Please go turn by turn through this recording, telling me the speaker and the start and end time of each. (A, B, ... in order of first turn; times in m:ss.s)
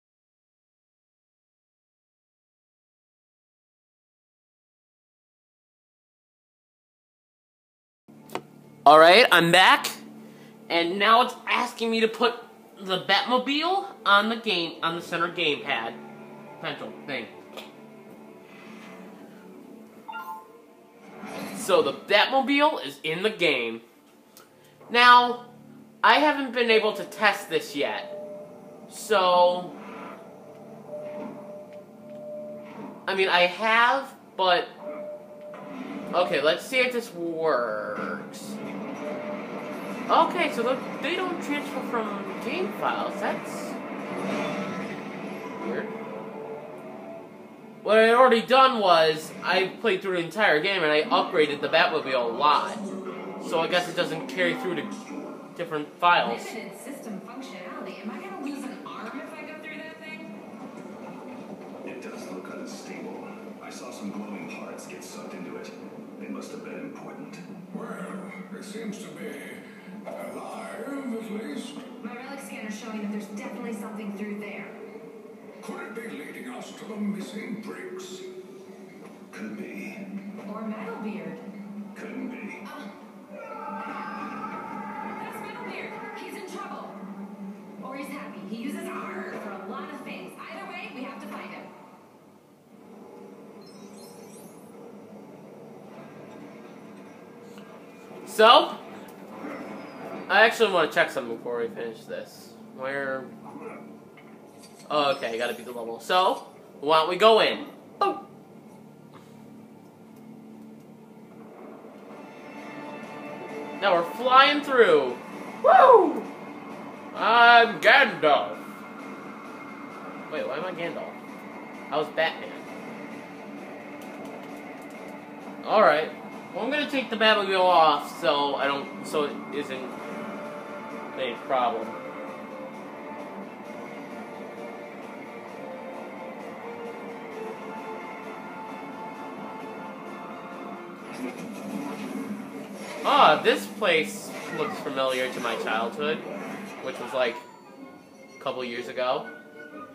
0:08.8-0:10.0 A
0:10.7-0:16.0 A
0:16.6-0:17.4 A
0:21.5-0:23.8 A
0:24.9-0:25.5 A
0:26.0-0:28.1 A
0:28.9-0:29.8 A
0:33.0-0:34.7 A
0:36.1-0:38.6 A
0:40.1-0:43.8 A
0:45.6-0:45.9 A
0:47.8-0:52.8 A
0:52.9-0:55.4 B
0:53.4-0:54.9 A
0:55.5-0:56.5 A
0:56.2-1:00.3 C
1:01.8-1:07.4 B
1:07.7-1:11.9 D
1:12.0-1:14.8 C
1:15.6-1:18.3 D
1:19.3-1:20.1 B
1:20.4-1:21.4 C
1:21.9-1:22.6 B
1:22.6-1:22.9 C
1:25.1-1:27.0 C
1:27.8-1:31.7 C
1:38.2-1:38.8 A
1:40.3-1:43.3 A
1:44.9-1:48.2 A
1:53.8-1:56.3 A
1:57.1-1:58.6 A
2:00.3-2:01.2 A
2:01.9-2:02.6 A
2:05.6-2:10.0 A
2:11.1-2:12.0 A
2:23.0-2:26.2 A
2:26.8-2:27.4 A
2:28.4-2:29.3 A